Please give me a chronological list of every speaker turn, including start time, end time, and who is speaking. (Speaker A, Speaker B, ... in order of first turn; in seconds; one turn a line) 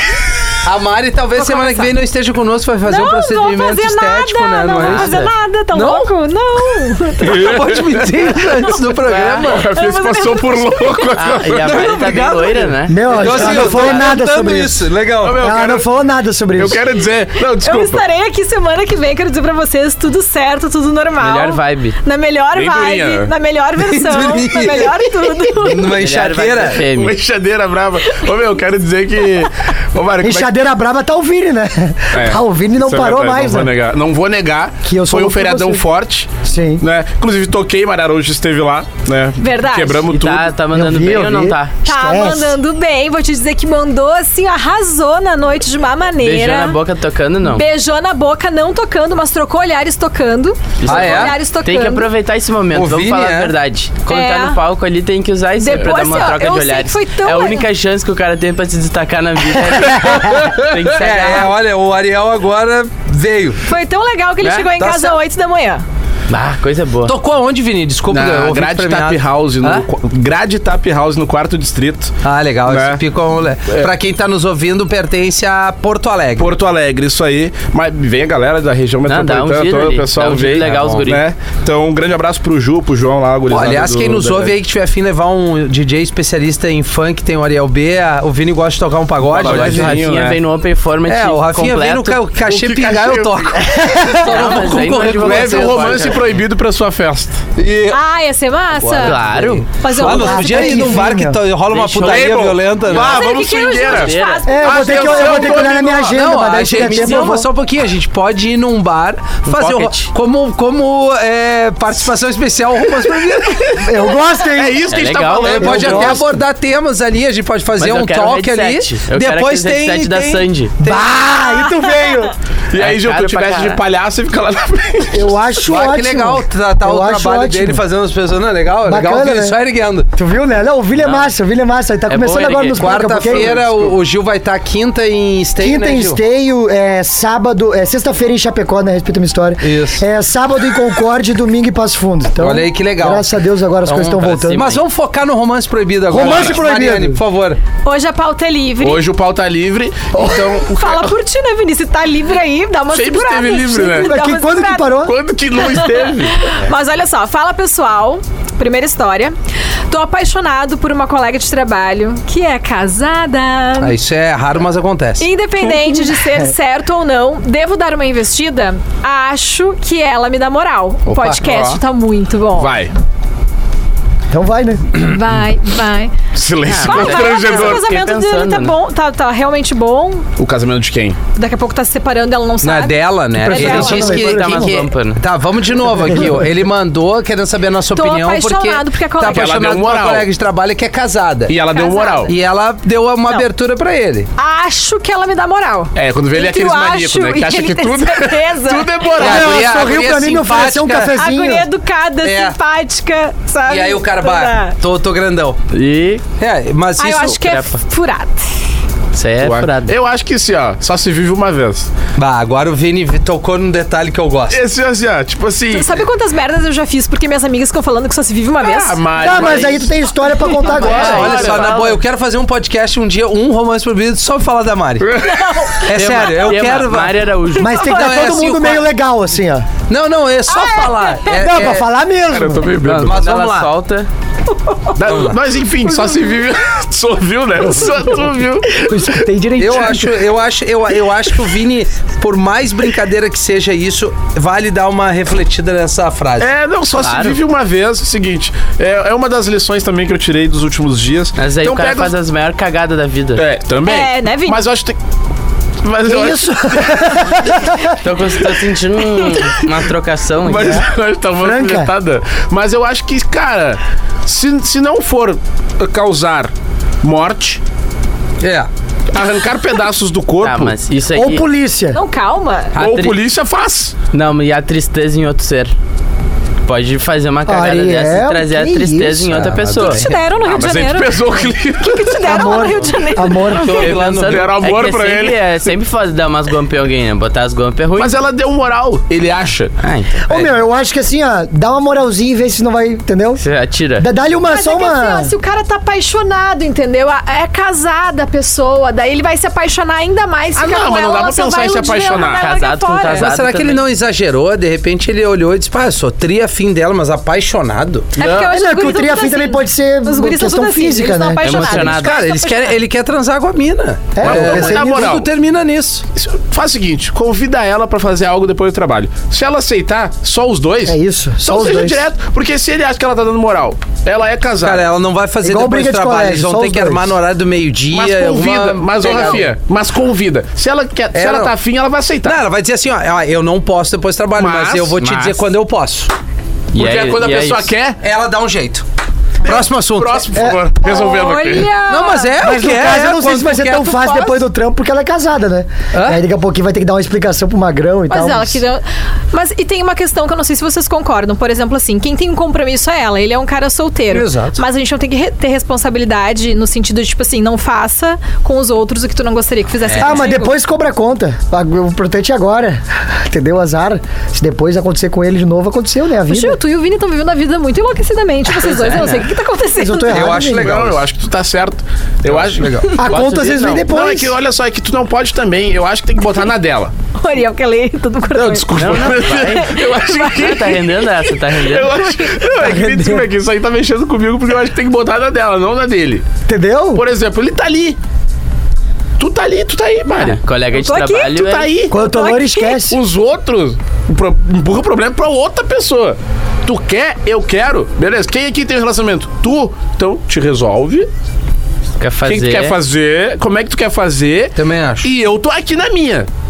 Speaker A: 0.6-6.1
Speaker B: 1.4-1.9
Speaker B: 2.9-11.2
Speaker C: 4.7-5.2
Speaker A: 7.2-9.6
Speaker D: 7.4-8.6
Speaker C: 9.0-9.5
Speaker D: 9.4-11.9
Speaker C: 11.2-14.1
Speaker A: 11.6-15.4
Speaker E: 12.9-14.8
Speaker D: 15.2-15.9
Speaker E: 15.4-16.8
Speaker D: 16.6-18.0
Speaker B: 17.6-26.0
Speaker C: 21.2-22.0
Speaker D: 22.6-23.3
Speaker A: 23.8-26.9
Speaker C: 25.8-27.2
Speaker D: 26.8-30.5
Speaker E: 30.2-33.7
Speaker D: 32.1-40.5
Speaker E: 34.9-35.8
Speaker E: 36.4-36.8
Speaker B: 39.4-40.1
Speaker C: 40.1-41.8
Speaker E: 40.7-42.6
Speaker B: 41.9-46.8
Speaker C: 46.2-47.7
Speaker B: 47.4-52.1
Speaker C: 50.8-61.6
Speaker A: 50.9-51.4
Speaker A: 52.7-53.5
Speaker B: 54.1-54.6
Speaker B: 55.6-57.7
Speaker A: 59.8-63.6
Speaker B: 63.7-65.8
Speaker C: 64.4-64.7
Speaker A: 64.8-65.2
Speaker C: 66.3-67.2
Speaker A: 67.0-69.9
Speaker D: 68.1-72.2
Speaker A: 72.2-76.5
Speaker D: 72.7-73.0
Speaker D: 73.7-73.9
Speaker D: 76.4-84.6
Speaker C: 79.1-81.2
Speaker A: 83.5-90.0
Speaker D: 89.2-90.4
Speaker C: 89.3-92.2
Speaker A: 91.1-96.2
Speaker D: 92.5-93.6
Speaker E: 93.8-94.3
Speaker C: 94.2-96.4
Speaker D: 95.1-97.4
Speaker A: 97.6-98.0
Speaker B: 97.9-99.2
Speaker A: 98.8-103.2
Speaker C: 99.0-99.7
Speaker B: 99.7-101.0
Speaker E: 100.0-101.4
Speaker C: 101.7-102.3
Speaker D: 101.8-106.2
Speaker B: 102.9-105.7
Speaker C: 103.8-104.5
Speaker E: 104.5-107.5
Speaker A: 106.1-113.8
Speaker C: 106.7-107.3
Speaker C: 109.5-110.1
Speaker E: 113.8-114.9
Speaker D: 114.5-116.2
Speaker C: 114.9-116.2
Speaker A: 115.4-121.1
Speaker E: 115.5-116.3
Speaker C: 117.8-120.8
Speaker E: 120.8-122.3
Speaker B: 121.5-122.3
Speaker D: 122.7-125.4
Speaker C: 122.8-123.8
Speaker E: 125.1-127.8
Speaker A: 125.7-130.1
Speaker E: 128.9-129.6
Speaker E: 130.1-133.6
Speaker C: 131.0-131.3
Speaker C: 132.1-133.0
Speaker A: 132.8-136.2
Speaker D: 133.1-133.9
Speaker E: 135.6-144.8
Speaker A: 139.6-140.0
Speaker A: 142.4-143.3
Speaker A: 143.9-147.6
Speaker C: 144.3-144.8
Speaker E: 146.1-147.2
Speaker D: 146.2-146.6
Speaker B: 147.8-149.0
Speaker D: 148.8-151.1
Speaker E: 150.1-150.5
Speaker B: 150.7-154.9
Speaker D: 152.9-154.1
Speaker E: 153.9-155.2
Speaker D: 155.0-156.6
Speaker B: 155.6-159.3
Speaker B: 159.9-163.9
Speaker A: 163.8-165.3
Speaker B: 165.2-172.8
Speaker A: 171.1-171.7
Speaker D: 171.5-171.8
Speaker D: 172.6-172.9
Speaker E: 174.3-174.9
Speaker B: 174.9-176.1
Speaker D: 176.3-177.8
Speaker C: 176.7-178.8
Speaker B: 176.8-180.3
Speaker D: 180.4-181.2
Speaker B: 181.3-184.2
Speaker A: 182.6-191.6
Speaker E: 183.3-184.8
Speaker C: 183.6-185.2
Speaker E: 185.9-186.5
Speaker B: 187.9-189.6
Speaker D: 189.3-190.3
Speaker D: 191.5-192.3
Speaker B: 191.7-192.3
Speaker A: 192.3-194.3
Speaker B: 194.4-199.2
Speaker D: 195.9-199.9
Speaker A: 199.2-201.2
Speaker E: 199.2-201.7
Speaker B: 201.1-204.8
Speaker A: 202.2-202.6
Speaker A: 203.7-205.6
Speaker C: 205.7-206.2
Speaker A: 206.4-207.4
Speaker B: 207.0-208.5
Speaker C: 207.4-207.8
Speaker C: 209.1-209.9
Speaker D: 209.4-211.9
Speaker A: 212.2-214.6
Speaker D: 214.5-216.0
Speaker B: 215.7-220.8
Speaker D: 218.6-219.9
Speaker E: 219.2-221.4
Speaker D: 220.6-221.8
Speaker C: 220.7-222.0
Speaker A: 220.8-225.1
Speaker D: 225.0-225.7
Speaker B: 225.2-226.5
Speaker A: 225.9-228.9
Speaker C: 225.9-227.8
Speaker E: 227.6-229.7
Speaker B: 227.8-228.3
Speaker A: 229.9-231.9
Speaker B: 230.5-231.4
Speaker E: 231.3-232.7
Speaker D: 232.3-233.2
Speaker C: 232.8-234.1
Speaker A: 233.1-233.7
Speaker B: 234.5-234.9
Speaker D: 235.0-238.9
Speaker A: 235.1-235.4
Speaker E: 238.8-240.2
Speaker A: 239.6-246.5
Speaker D: 246.4-252.1
Speaker C: 247.0-247.4
Speaker C: 251.4-253.4
Speaker D: 253.4-255.0
Speaker B: 253.9-254.6
Speaker D: 255.8-257.4
Speaker E: 256.1-258.0
Speaker C: 258.0-260.8
Speaker D: 260.4-267.6
Speaker E: 261.4-261.9
Speaker A: 268.4-268.7
Speaker D: 269.1-270.8
Speaker C: 270.4-271.4
Speaker E: 271.1-272.0
Speaker B: 271.9-272.8
Speaker D: 272.8-273.9
Speaker A: 272.8-273.1
Speaker C: 272.8-273.1
Speaker C: 274.1-275.8
Speaker C: 276.7-280.0
Speaker E: 277.5-279.4
Speaker A: 279.3-280.2
Speaker B: 279.8-283.8
Speaker D: 280.4-282.6
Speaker E: 282.2-284.0
Speaker A: 283.5-284.5
Speaker C: 283.6-288.2
Speaker D: 284.2-285.4
Speaker D: 288.0-289.7
Speaker C: 289.8-290.2
Speaker E: 290.3-293.4
Speaker A: 290.3-290.6
Speaker C: 293.4-294.1
Speaker E: 294.0-295.3
Speaker B: 294.4-303.3
Speaker D: 300.6-302.5
Speaker C: 302.2-303.8
Speaker A: 303.1-308.1
Speaker B: 308.2-312.8
Speaker E: 308.2-311.9
Speaker C: 311.4-312.2
Speaker A: 311.5-316.0
Speaker E: 314.1-315.2
Speaker D: 314.2-315.3
Speaker D: 316.1-324.9
Speaker E: 320.9-322.0
Speaker A: 324.6-329.5
Speaker E: 325.4-327.2
Speaker D: 327.9-332.4
Speaker A: 331.1-331.5
Speaker A: 332.2-336.1
Speaker D: 334.4-335.4
Speaker C: 336.7-337.7
Speaker D: 336.7-338.0
Speaker A: 338.0-338.8
Speaker A: 339.4-340.3
Speaker D: 339.4-341.8
Speaker E: 340.3-340.7
Speaker B: 340.8-342.6
Speaker A: 341.9-344.4
Speaker E: 342.4-348.6
Speaker A: 345.9-346.2
Speaker B: 348.1-360.6
Speaker A: 354.1-354.6
Speaker E: 360.0-366.6
Speaker B: 366.3-370.4
Speaker C: 368.6-369.3
Speaker E: 369.8-370.7
Speaker A: 370.1-371.0
Speaker D: 370.4-372.9
Speaker A: 372.3-373.0
Speaker E: 373.0-374.3
Speaker C: 373.0-373.9
Speaker D: 373.8-376.9
Speaker B: 377.2-380.7
Speaker D: 378.3-386.2
Speaker C: 378.8-382.0
Speaker B: 381.9-382.5
Speaker E: 382.6-383.3
Speaker E: 386.5-387.0
Speaker D: 386.9-388.0
Speaker D: 389.2-390.4
Speaker C: 390.2-391.7
Speaker B: 390.7-392.8
Speaker D: 391.3-391.9
Speaker E: 391.9-393.0
Speaker D: 392.9-401.1
Speaker C: 402.0-402.8
Speaker D: 402.2-406.3
Speaker A: 404.6-405.1